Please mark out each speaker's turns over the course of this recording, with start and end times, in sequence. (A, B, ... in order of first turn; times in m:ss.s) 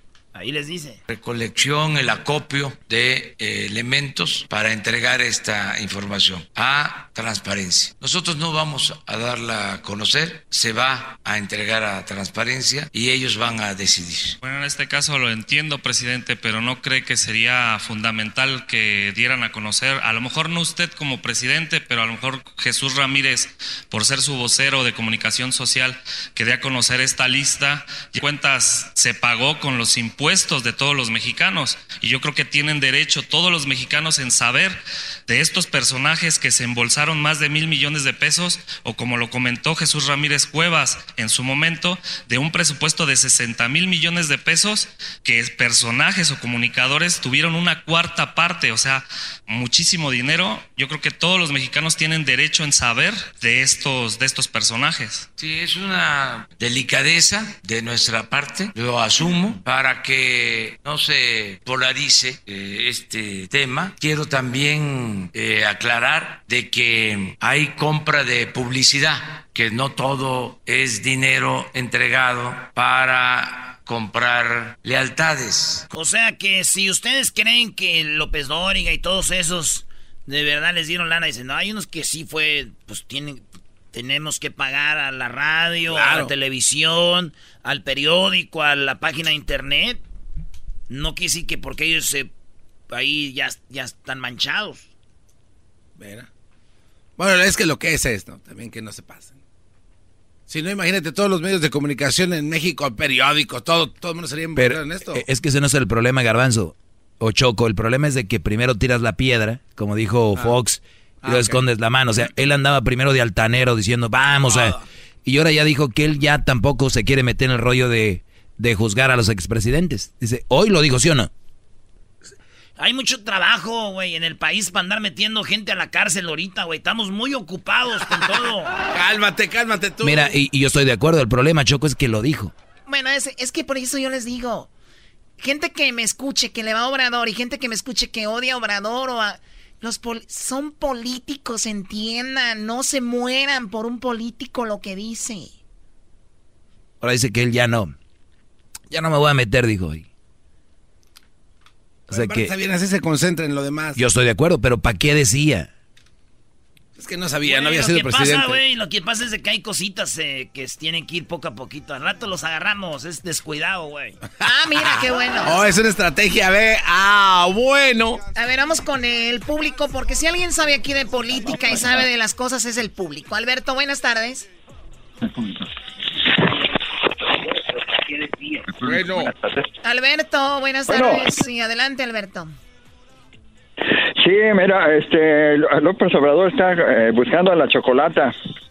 0:00.3-0:01.0 A
0:01.1-0:14.4 B
0:14.4-0:55.3 C
0:55.4-1:15.9 B
1:15.9-1:30.0 A
1:25.9-1:26.3 D
1:30.9-1:32.3 A
1:32.9-1:34.8 A
1:36.0-1:36.3 D
1:37.2-1:39.4 D
1:40.5-1:45.2 D
1:44.6-2:01.3 E
1:51.2-1:51.6 D
1:54.4-1:54.8 D
2:02.8-2:08.7 A
2:08.9-2:10.3 D
2:10.0-2:12.5 E
2:12.9-2:14.7 F
2:15.4-2:25.5 F
2:27.0-2:27.9 E
2:28.9-2:30.0 E
2:32.1-2:32.5 E
2:32.1-2:34.0 D
2:34.0-2:35.7 E
2:37.0-2:38.6 D
2:37.4-2:44.2 A
2:44.4-2:45.6 F
2:45.4-2:48.2 D
2:48.3-2:54.5 F
2:58.6-2:59.6 G
2:58.8-2:59.3 D
2:59.8-3:02.5 F
3:00.9-3:01.2 G
3:03.8-3:08.3 G